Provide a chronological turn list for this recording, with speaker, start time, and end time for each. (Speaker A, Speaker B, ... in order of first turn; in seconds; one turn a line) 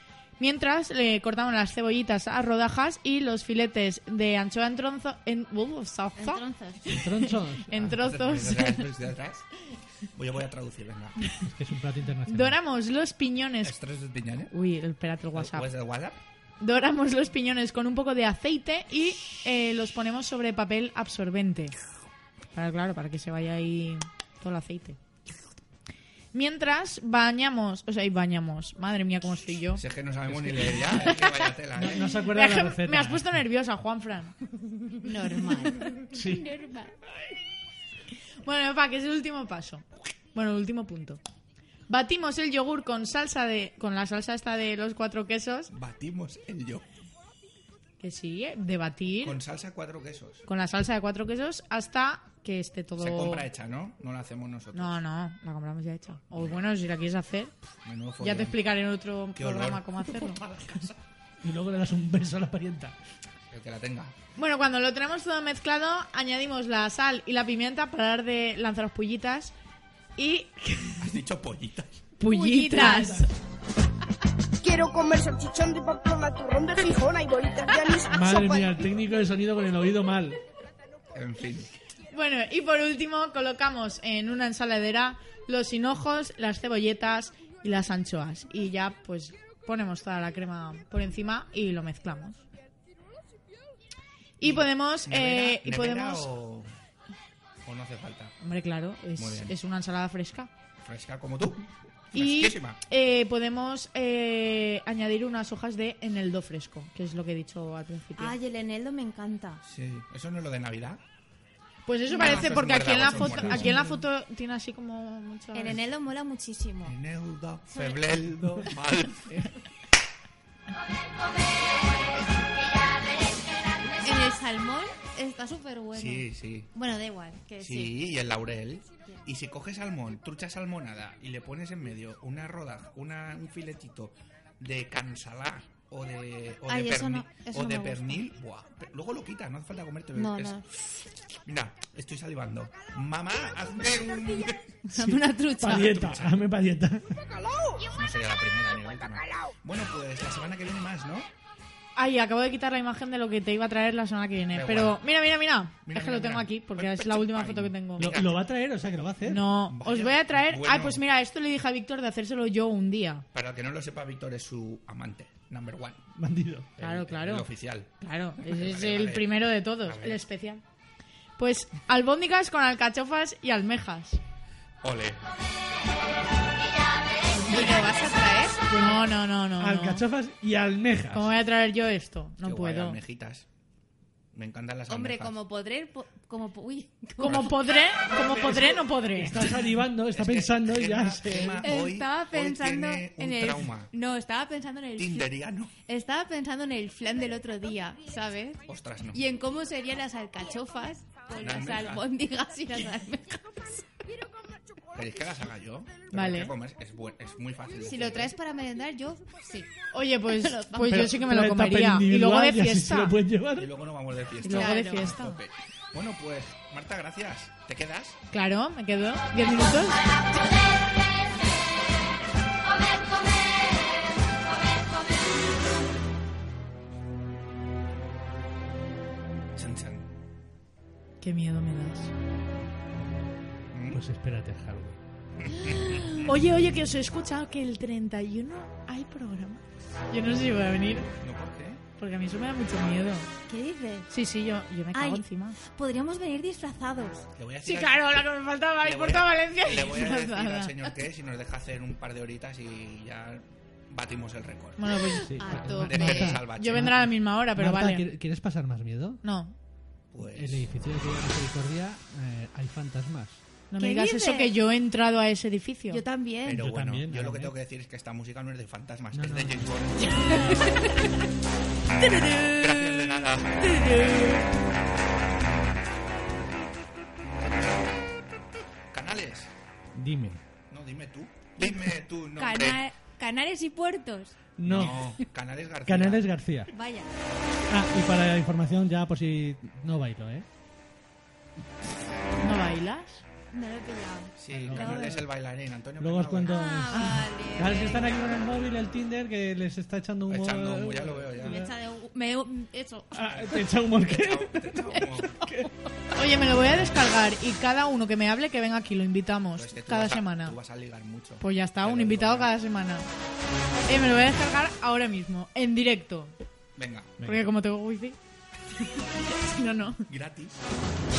Speaker A: 0.4-8.9
Speaker B: 6.2-7.0
Speaker C: 6.9-8.0
Speaker D: 7.7-9.5
Speaker D: 10.1-11.2
Speaker C: 11.4-12.6
Speaker A: 12.3-13.8
Speaker D: 13.6-14.5
Speaker A: 14.5-15.7
Speaker D: 15.3-16.2
Speaker A: 16.6-21.8
Speaker A: 22.5-25.0
Speaker A: 26.3-29.8
Speaker D: 29.8-32.3
Speaker C: 30.3-31.1
Speaker A: 31.1-31.4
Speaker C: 31.8-33.4
Speaker A: 32.3-34.4
Speaker B: 35.0-36.9
Speaker A: 35.3-36.0
Speaker C: 36.1-36.5
Speaker A: 38.4-41.2
Speaker A: 41.9-45.7
Speaker D: 45.7-46.9
Speaker A: 48.0-49.4
Speaker D: 49.2-50.5
Speaker A: 50.5-53.5
Speaker D: 53.0-55.0
Speaker A: 54.7-57.6
Speaker D: 56.3-56.7
Speaker D: 57.9-58.7
Speaker A: 58.2-60.4
Speaker D: 59.4-61.0
Speaker C: 61.4-63.0
Speaker D: 63.5-64.2
Speaker A: 64.4-69.5
Speaker A: 70.2-71.1
Speaker D: 71.0-72.1
Speaker A: 72.2-73.3
Speaker C: 72.3-73.3
Speaker E: 74.6-78.9
Speaker C: 78.1-80.4
Speaker D: 81.1-81.7
Speaker A: 82.1-92.4
Speaker A: 94.4-96.3
Speaker D: 94.4-96.7
Speaker D: 97.7-98.3
Speaker A: 98.4-100.5
Speaker D: 99.2-99.6
Speaker D: 100.8-102.8
Speaker A: 102.1-108.3
Speaker B: 108.2-109.6
Speaker D: 109.6-111.0
Speaker A: 111.9-115.8
Speaker B: 112.1-112.5
Speaker D: 112.1-113.8
Speaker C: 113.1-113.9
Speaker B: 115.5-117.0
Speaker D: 116.8-119.4
Speaker B: 117.7-118.0
Speaker B: 124.0-128.0
Speaker D: 125.9-126.7
Speaker D: 127.6-140.6
Speaker B: 136.7-138.3
Speaker B: 140.2-140.7
Speaker D: 141.5-144.8
Speaker C: 144.9-147.1
Speaker B: 144.9-146.0
Speaker D: 145.6-146.5
Speaker E: 147.2-147.9
Speaker D: 147.9-151.3
Speaker E: 148.7-149.5
Speaker A: 152.0-158.2
Speaker D: 154.5-155.1
Speaker D: 155.8-158.4
Speaker C: 158.0-159.5
Speaker A: 159.2-163.2
Speaker D: 159.7-161.0
Speaker D: 163.3-166.0
Speaker C: 166.2-166.7
Speaker D: 166.8-170.2
Speaker A: 166.8-170.6
Speaker A: 171.4-174.2
Speaker D: 174.8-175.2
Speaker B: 177.3-178.7
Speaker A: 177.5-177.8
Speaker C: 178.7-181.3
Speaker A: 178.8-180.1
Speaker A: 181.1-183.0
Speaker D: 182.4-183.5
Speaker D: 184.3-185.4
Speaker B: 184.9-187.6
Speaker A: 187.2-189.5
Speaker D: 187.2-187.6
Speaker C: 188.1-191.6
Speaker D: 189.9-193.9
Speaker B: 191.4-195.3
Speaker D: 195.0-195.7
Speaker B: 195.9-198.6
Speaker D: 198.7-199.2
Speaker B: 199.1-203.8
Speaker D: 201.3-202.1
Speaker E: 204.3-204.8
Speaker D: 204.9-208.3
Speaker A: 206.1-206.5
Speaker B: 207.8-211.1
Speaker A: 209.9-213.2
Speaker C: 210.8-213.7
Speaker D: 213.5-218.2
Speaker B: 214.4-215.2
Speaker A: 214.4-215.4
Speaker A: 218.3-220.0
Speaker D: 229.6-230.1
Speaker A: 231.2-232.1
Speaker D: 233.7-234.0
Speaker C: 233.9-235.0
Speaker D: 235.4-236.3
Speaker A: 236.3-241.1
Speaker D: 241.2-241.8
Speaker A: 242.0-243.3
Speaker B: 243.5-244.1
Speaker A: 244.1-245.6
Speaker B: 244.9-247.3
Speaker D: 247.4-248.3
Speaker A: 247.6-250.8
Speaker D: 248.8-255.1
Speaker A: 254.8-255.3
Speaker B: 254.9-256.4
Speaker C: 255.2-259.2
Speaker D: 255.8-257.1
Speaker A: 256.0-258.1
Speaker A: 259.2-259.6
Speaker D: 260.1-260.7
Speaker C: 260.3-263.4
Speaker A: 263.7-266.0
Speaker B: 263.8-264.5
Speaker B: 265.9-266.6
Speaker D: 266.4-270.7
Speaker C: 266.6-267.5
Speaker C: 269.1-269.7
Speaker B: 270.2-271.1
Speaker D: 272.1-274.1
Speaker B: 273.7-274.2
Speaker D: 278.9-279.5
Speaker C: 279.9-280.4
Speaker D: 280.7-282.8
Speaker B: 282.4-284.4
Speaker C: 284.6-285.3
Speaker D: 284.6-286.3
Speaker C: 285.9-286.7
Speaker B: 286.7-287.1
Speaker C: 287.7-290.5
Speaker A: 292.4-293.2
Speaker B: 293.5-295.1
Speaker D: 294.4-296.6
Speaker C: 294.5-295.2
Speaker C: 296.0-301.7
Speaker B: 296.5-298.2
Speaker D: 300.3-301.7
Speaker B: 301.4-303.2
Speaker C: 303.1-305.7
Speaker D: 303.2-305.4
Speaker A: 306.2-310.6
Speaker D: 309.6-312.6
Speaker A: 311.4-313.1
Speaker A: 313.9-316.3
Speaker D: 316.8-317.2
Speaker C: 317.2-317.5
Speaker A: 317.2-318.2
Speaker A: 318.9-320.1
Speaker D: 320.1-320.6